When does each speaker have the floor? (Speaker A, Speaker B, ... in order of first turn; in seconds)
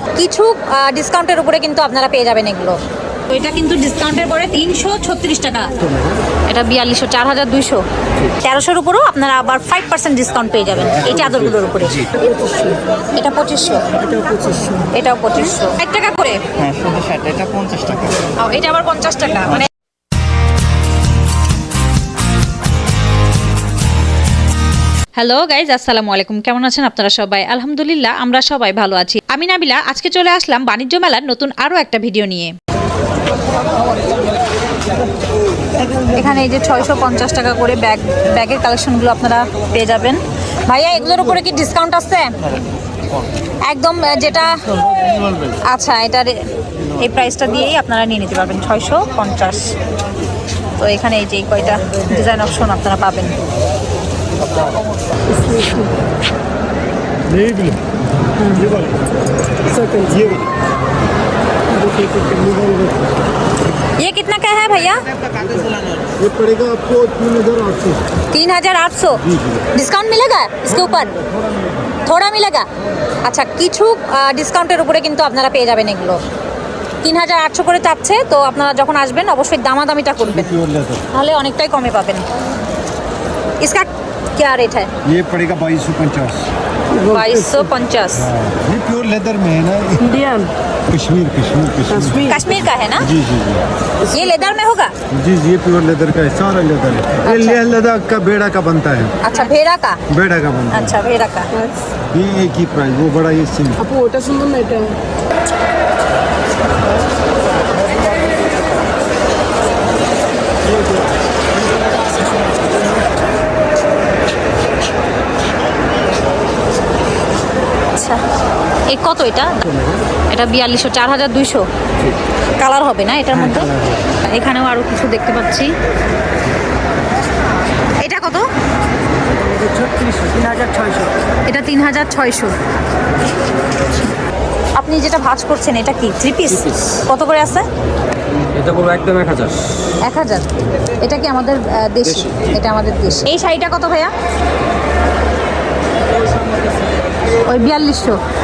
Speaker A: 0.1-5.7, 6.5-7.8, 8.4-12.1, 13.2-13.8, 14.9-16.4, 18.4-19.7, 25.2-32.5, 36.1-42.3, 43.7-44.6, 45.6-46.4, 47.0-49.7, 50.8-53.4, 64.0-65.0, 68.3-69.2, 69.7-71.1, 72.1-72.7, 73.2-76.2, 77.0-80.5, 81.1-82.2, 83.6-84.9, 87.1-88.3, 92.3-93.1, 94.1-94.9, 97.2-97.6, 99.2-100.0, 100.7-101.5, 118.0-118.2, 118.9-119.6, 120.3-121.7, 122.6-123.7, 124.2-125.7, 128.0-128.5, 131.5-132.6, 134.8-137.7, 140.1-140.5, 141.0-144.1, 147.5-148.2
Speaker B: 12.1-12.8, 14.0-14.9, 55.3-55.9, 59.7-60.2, 61.8-62.1, 86.9-87.7, 90.0-90.5, 91.9-92.5, 94.0-94.4, 101.5-101.9, 103.8-104.9
Speaker C: 16.6-18.1, 130.3-130.8, 138.5-139.6, 142.1-142.5
Speaker D: 44.7-45.6, 57.3-57.8, 58.5-59.0, 60.1-60.5, 62.1-63.0, 65.1-68.0, 69.2-69.6, 80.3-81.0, 85.0-86.5, 88.3-90.0, 90.9-92.2, 93.0-93.6, 95.1-99.2, 100.1-101.0, 102.1-103.8